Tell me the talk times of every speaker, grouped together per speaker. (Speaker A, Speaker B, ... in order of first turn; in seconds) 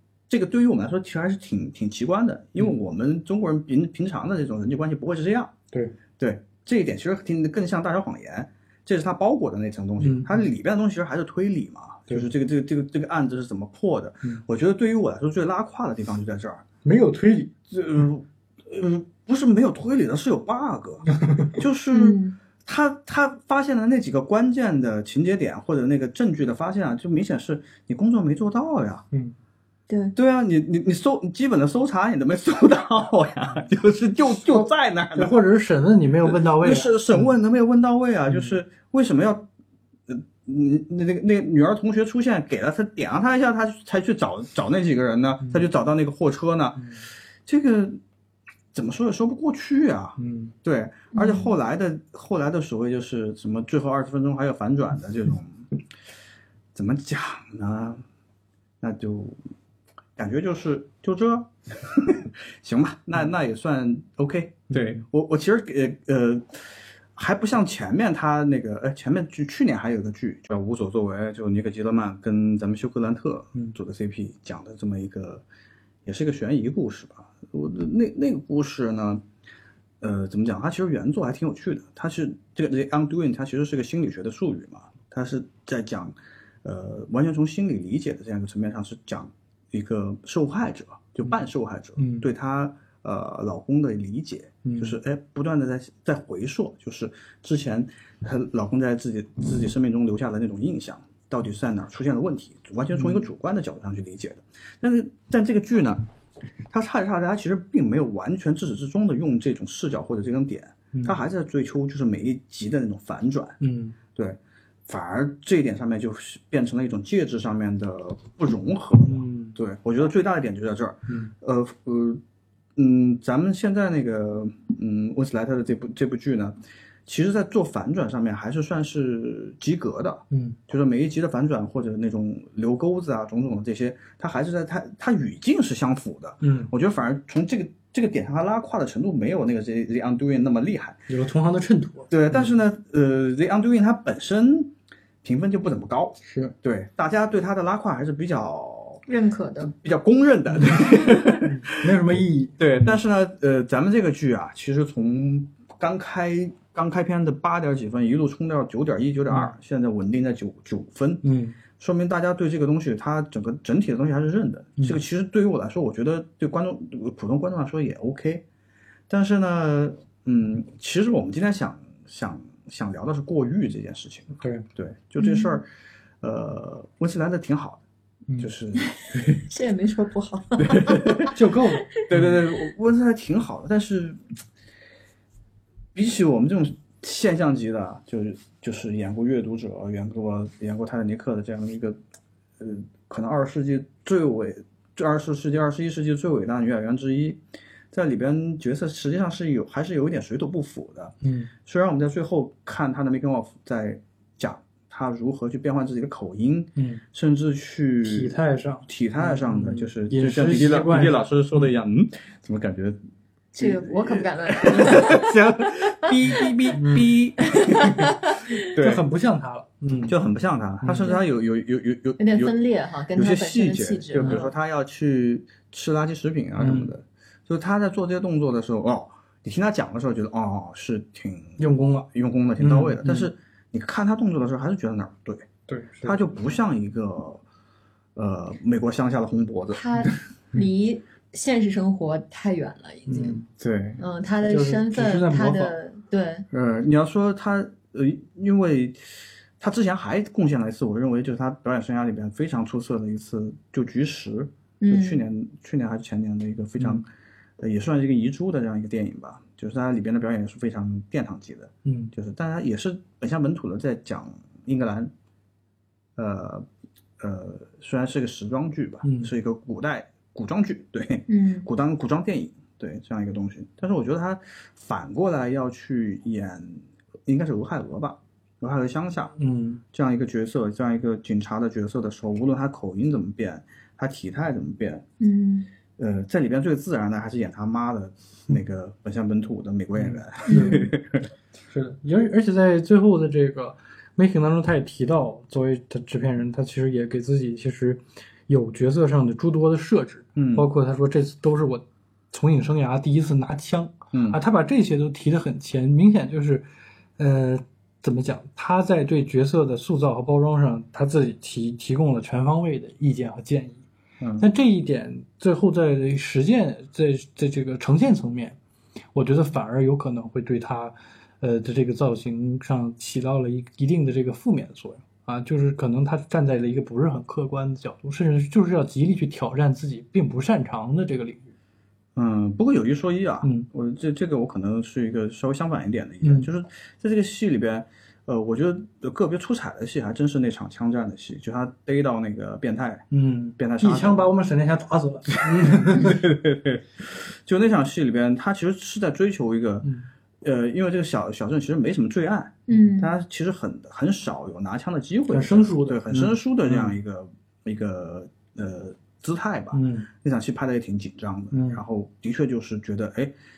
Speaker A: 0.3-5.5, 6.2-16.6, 17.7-29.0, 30.1-35.4, 36.2-39.5, 40.1-46.9, 47.5-48.0, 48.7-55.7, 56.7-58.0, 58.8-59.4, 60.2-75.4, 76.0-79.2, 80.0-106.0, 106.7-113.6, 114.1-122.2, 122.8-141.0, 142.1-144.7, 145.2-149.0, 149.6-168.4, 169.1-175.7, 176.2-177.8, 178.4-179.4, 180.6-181.3, 182.1-184.2, 185.9-192.0, 192.6-197.4, 197.9-201.1, 201.6-208.3, 208.8-213.0, 213.6-219.0, 220.1-222.5, 223.2-235.5, 236.0-237.4, 238.2-239.8, 243.6-244.0, 246.5-257.1, 257.6-265.1, 266.1-266.6, 267.2-279.3, 279.9-285.0, 286.0-291.3, 300.4-300.7, 304.1-304.4, 314.2-314.5, 332.1-344.3, 345.3-349.9, 350.4-363.3
Speaker B: 10.0-10.4, 16.8-17.5, 21.1-21.5, 34.5-37.2, 50.2-50.5, 64.7-65.0, 92.0-92.3, 94.6-95.0, 102.9-103.2, 113.6-114.0, 119.1-119.6, 130.3-130.6, 136.4-136.7, 141.1-142.5, 146.2-146.5, 150.5-152.9, 161.2-161.6, 174.4-174.6, 181.3-182.3, 201.2-201.5, 206.8-207.0, 208.0-211.7, 216.7-217.1, 218.7-220.1, 220.8-221.2, 224.2-224.4, 226.6-226.9, 231.6-232.1, 232.6-233.3, 235.7-236.2, 243.1-243.4, 244.4-245.7, 261.8-262.1, 269.0-269.3, 279.4-279.8, 290.0-290.9, 291.7-306.6, 307.2-313.8, 314.4-318.6, 319.1-331.4, 336.2-336.5, 343.1-346.2, 355.3-356.9, 359.7-360.1, 361.5-361.8
Speaker C: 21.9-22.4, 29.9-30.1, 51.1-51.5, 149.1-149.7, 175.2-175.6, 178.8-182.0, 213.5-215.3, 217.6-218.5, 222.2-224.5, 239.7-243.4, 244.0-246.4, 254.8-255.2, 271.3-271.7, 285.2-285.7, 290.5-290.9, 352.7-353.1